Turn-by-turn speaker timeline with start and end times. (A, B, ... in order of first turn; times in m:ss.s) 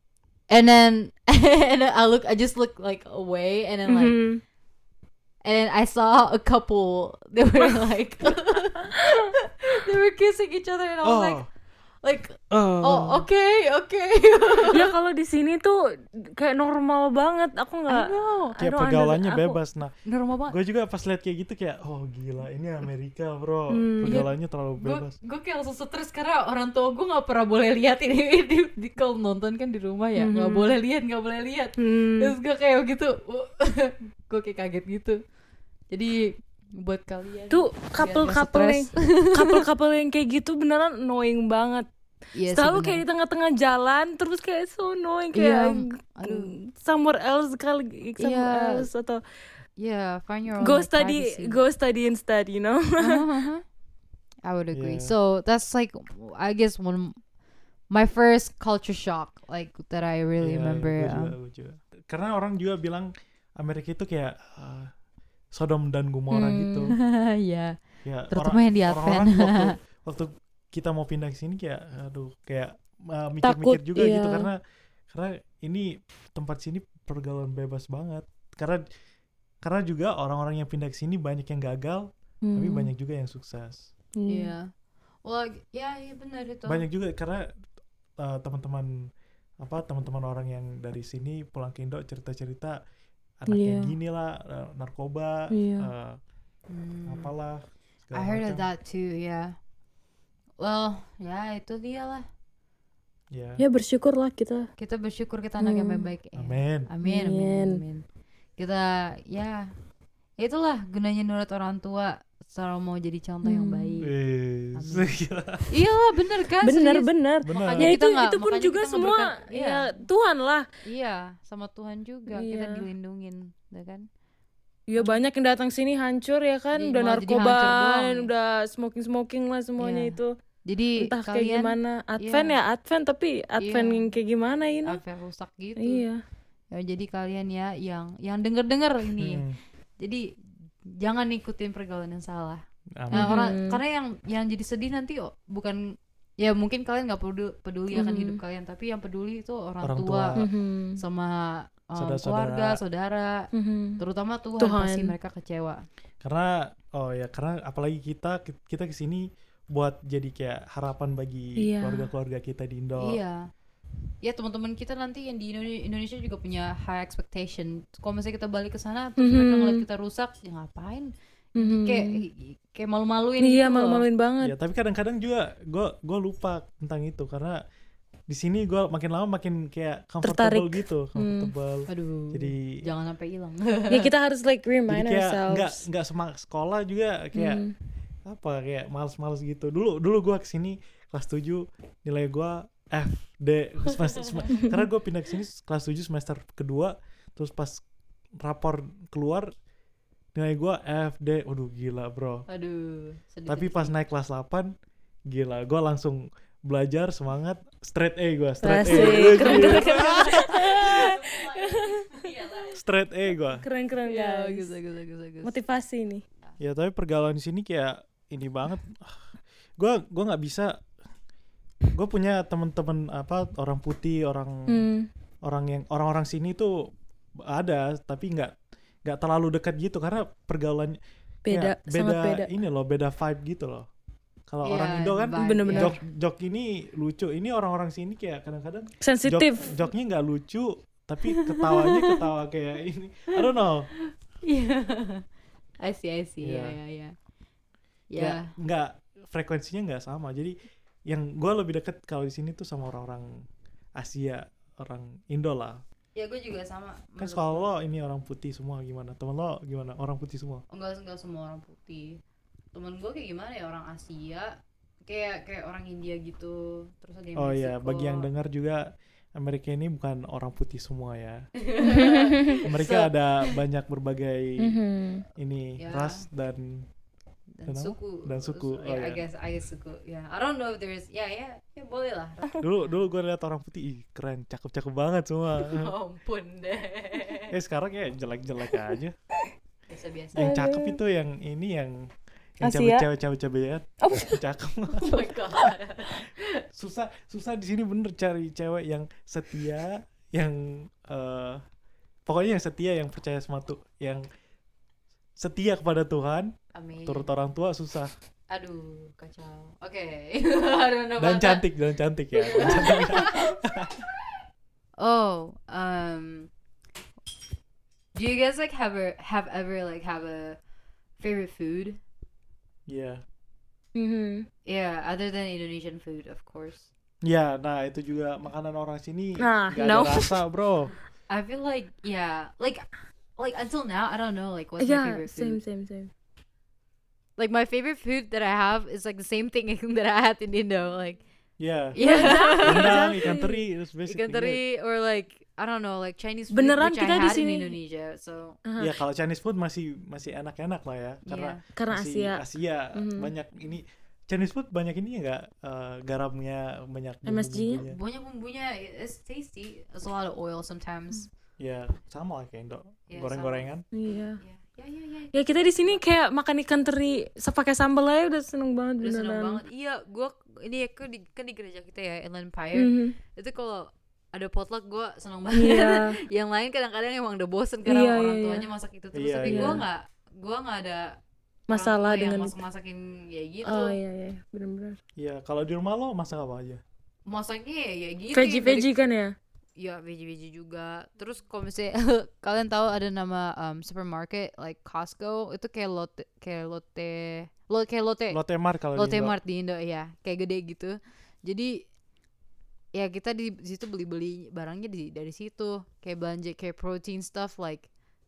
0:00.5-0:04.2 A
0:03.9-0:04.4 B
0:05.4-0:11.4 A
0:08.9-0:09.3 B
0:11.0-0:11.5 C
0:12.0-0:14.9 A
0:12.5-0:13.3 C
0:14.7-0:19.6 B
0:17.9-0:18.6 A
0:18.6-0:20.0 C
0:20.0-0:20.6 A
0:20.5-0:25.2 C
0:23.7-0:24.3 B
0:24.0-0:35.2 A
0:30.2-0:30.8 B
0:31.8-0:32.3 B
0:35.9-0:39.6 A
0:37.5-0:41.9 B
0:42.4-0:43.0 A
0:42.5-0:49.2 B
0:45.3-0:46.6 A
0:48.2-0:48.9 A
0:49.8-0:51.6 A
0:50.6-0:53.2 B
0:53.0-0:53.6 A
0:54.4-0:57.2 A
0:54.7-0:55.1 C
0:57.9-1:01.3 A
1:00.4-1:04.9 C
1:05.5-1:07.0 C
1:06.3-1:07.0 B
1:06.9-1:07.8 A
1:08.0-1:14.6 C
1:08.3-1:09.8 A
1:13.4-1:14.5 B
1:15.1-1:18.8 C
1:19.6-1:23.8 C
1:22.4-1:22.9 B
1:24.2-1:24.5 B
1:24.3-1:24.7 A
1:25.2-1:26.9 A
1:26.7-1:27.5 C
1:28.2-1:29.1 C
1:29.6-1:32.8 C
1:33.4-1:36.2 C
1:33.5-1:34.0 B
1:35.5-1:35.9 B
1:36.7-1:37.3 A
1:37.1-1:38.7 C
1:38.1-1:39.6 A
1:40.6-1:42.2 A
1:43.3-1:43.6 C
1:43.6-1:44.7 B
1:44.8-1:48.0 A
1:45.6-1:46.1 B
1:46.4-1:46.9 C
1:47.0-1:47.8 B
1:48.6-1:49.7 A
1:50.4-1:54.1 A
1:53.4-1:54.0 B
1:54.0-1:55.7 C
1:54.7-1:55.2 A
1:55.7-2:00.0 A
1:56.6-2:00.7 B
1:57.4-1:58.0 C
2:00.8-2:04.1 A
2:02.3-2:02.8 B
2:04.9-2:10.4 B
2:05.0-2:05.2 A
2:06.7-2:08.3 A
2:09.8-2:12.6 A
2:11.0-2:15.0 B
2:13.6-2:14.1 A
2:14.8-2:16.0 A
2:15.8-2:16.2 B
2:16.7-2:19.4 A
2:19.2-2:19.6 C
2:20.0-2:20.3 A
2:20.9-2:30.4 A
2:23.0-2:23.3 C
2:23.1-2:23.8 B
2:27.9-2:28.4 B
2:29.8-2:30.5 C
2:30.4-2:31.0 B
2:31.0-2:33.5 A
2:32.0-2:32.8 C
2:33.5-2:34.0 B
2:34.0-2:35.8 A
2:34.6-2:35.1 B
2:36.2-2:43.2 C
2:41.6-2:42.1 B
2:43.0-2:43.5 A
2:44.2-2:54.0 A
2:49.2-2:49.8 B
2:51.6-2:52.2 B
2:53.4-2:54.5 B
2:54.4-2:57.6 C
2:58.3-3:02.8 C
3:00.2-3:01.5 B
3:01.9-3:04.1 A
3:03.9-3:05.9 B
3:04.9-3:07.6 C
3:07.4-3:07.7 B
3:08.3-3:17.8 C
3:13.9-3:14.6 A
3:18.4-3:19.5 C
3:20.4-3:22.5 C
3:22.5-3:23.9 A
3:23.5-3:24.7 C
3:25.3-3:31.1 C
3:28.6-3:32.7 B
3:28.8-3:32.7 A
3:32.7-3:33.6 C
3:33.6-3:34.7 B
3:34.1-3:35.5 A
3:35.4-3:36.2 B
3:36.6-3:40.8 C
3:41.9-3:44.9 C
3:44.7-3:45.1 B
3:45.4-3:46.9 C
3:47.4-3:48.5 C
3:49.0-3:53.9 C
3:51.4-3:52.5 B
3:54.5-4:03.9 C
3:54.6-3:56.0 A
3:55.4-3:56.0 B
3:59.0-3:59.8 B
4:01.5-4:02.2 A
4:04.4-4:05.2 A
4:05.8-4:07.1 A
4:06.4-4:06.8 C
4:08.1-4:08.5 A
4:08.2-4:10.6 C
4:11.1-4:13.4 C
4:14.0-4:15.8 C
4:16.2-4:17.7 A
4:17.2-4:20.6 C
4:20.7-4:22.2 A
4:22.7-4:24.5 A
4:25.1-4:28.3 A
4:27.4-4:31.5 C
4:31.6-4:33.6 A
4:31.8-4:32.6 B
4:32.6-4:34.8 C
4:34.6-4:35.3 B
4:35.4-4:36.9 C
4:35.8-4:36.2 A
4:37.6-4:43.0 A
4:37.7-4:39.2 C
4:42.6-4:45.9 C
4:45.7-4:47.5 A
4:47.5-4:49.2 C
4:49.9-4:50.6 A
4:50.4-4:52.1 C
4:50.4-4:51.0 B
4:52.6-4:55.1 C
4:52.6-4:53.1 B
4:54.0-4:54.4 B
4:54.9-4:56.6 A
4:56.7-5:01.6 C
5:02.3-5:04.2 C
5:05.4-5:06.5 C
5:06.7-5:07.3 A
5:07.1-5:08.1 C
5:08.5-5:11.7 A
5:11.2-5:13.9 C
5:12.3-5:13.6 A
5:15.0-5:16.5 A
5:18.1-5:20.6 A
5:21.2-5:22.0 A
5:22.9-5:23.2 C
5:24.0-5:24.5 B
5:24.7-5:26.9 A
5:27.2-5:30.9 C
5:29.4-5:30.4 B
5:31.3-5:32.8 A
5:33.4-5:35.6 A
5:34.8-5:36.1 B
5:37.4-5:41.2 A
5:41.6-5:44.6 C
5:41.9-5:43.4 A
5:42.0-5:43.7 B
5:44.1-5:48.6 A
5:46.5-5:47.8 B
5:48.6-5:49.0 B
5:48.8-5:58.0 C
5:51.3-5:51.6 A
5:51.7-5:52.4 B
5:53.0-5:53.3 B
5:57.3-5:57.8 B
5:57.8-6:01.3 A
6:01.6-6:03.8 C
6:03.1-6:06.0 A
6:03.9-6:04.4 B
6:05.3-6:09.6 B
6:09.0-6:21.2 A
6:12.8-6:13.2 B
6:15.5-6:16.2 B
6:17.9-6:18.6 B
6:19.1-6:19.8 C
6:19.5-6:19.8 B
6:21.7-6:22.6 B
6:21.7-6:24.0 A
6:23.7-6:25.0 B
6:25.2-6:26.8 C
6:27.3-6:28.9 A
6:28.3-6:29.3 B
6:29.8-6:38.4 A
6:38.3-6:39.4 C
6:39.0-6:41.8 A
6:42.9-6:47.9 A